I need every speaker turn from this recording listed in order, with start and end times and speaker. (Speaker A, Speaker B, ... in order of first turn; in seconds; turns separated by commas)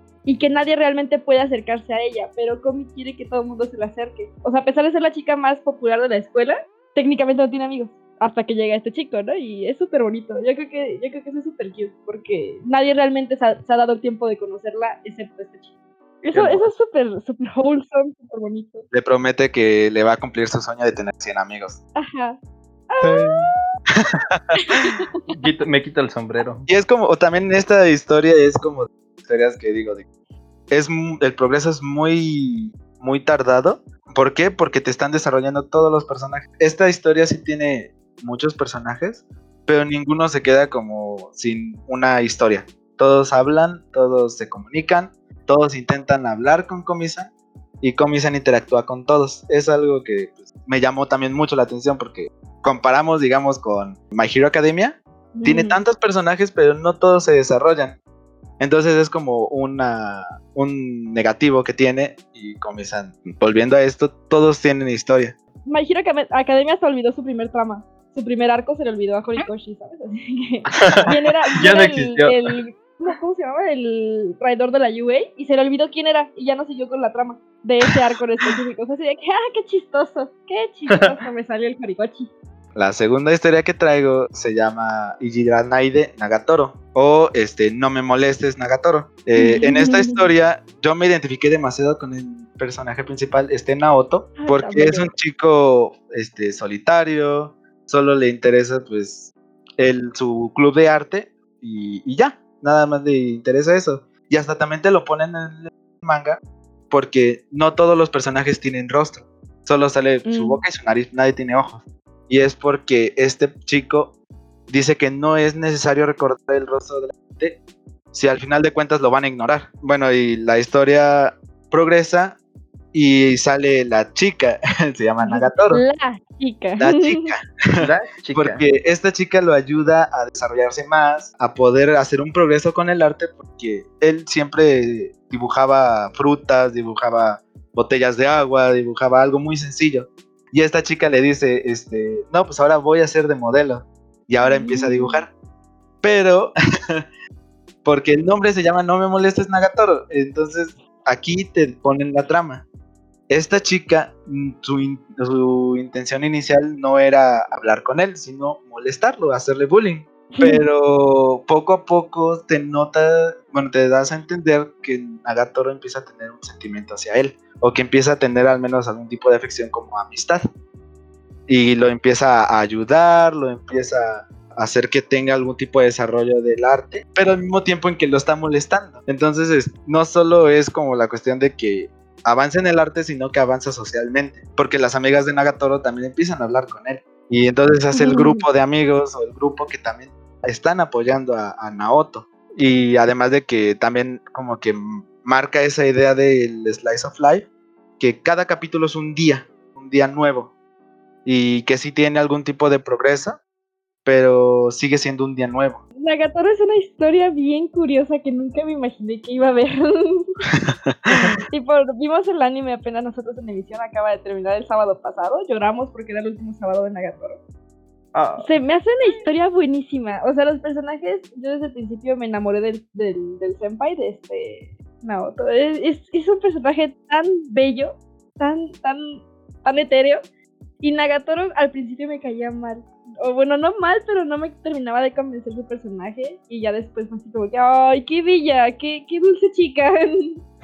Speaker A: 0.2-18.9, Speaker B: 16.3-16.6, Speaker B: 18.9-21.8, Speaker A: 21.9-22.4, Speaker A: 22.9-23.6, Speaker C: 23.0-23.5, Speaker B: 24.1-24.9, Speaker A: 24.6-25.5, Speaker C: 25.3-26.6, Speaker B: 26.7-30.0, Speaker B: 30.7-47.3, Speaker B: 47.8-58.0, Speaker A: 55.3-55.8, Speaker B: 58.6-65.3, Speaker A: 65.7-82.3, Speaker C: 70.8-72.4, Speaker B: 82.8-114.1, Speaker A: 89.3-90.3, Speaker A: 94.4-95.1, Speaker A: 110.2-110.6, Speaker B: 114.7-117.6, Speaker B: 118.1-122.4, Speaker B: 122.9-125.8, Speaker A: 125.2-127.3, Speaker B: 126.8-145.3, Speaker C: 127.8-128.6, Speaker A: 144.4-145.2, Speaker B: 146.0-147.0, Speaker B: 147.8-152.6, Speaker B: 153.3-170.4, Speaker A: 160.3-160.6, Speaker B: 171.5-197.5, Speaker A: 187.9-188.4, Speaker B: 198.0-200.5, Speaker B: 201.2-203.4, Speaker B: 204.0-205.8, Speaker A: 206.0-210.3, Speaker A: 211.5-217.4, Speaker C: 218.1-218.5, Speaker A: 218.4-230.2, Speaker A: 230.8-240.4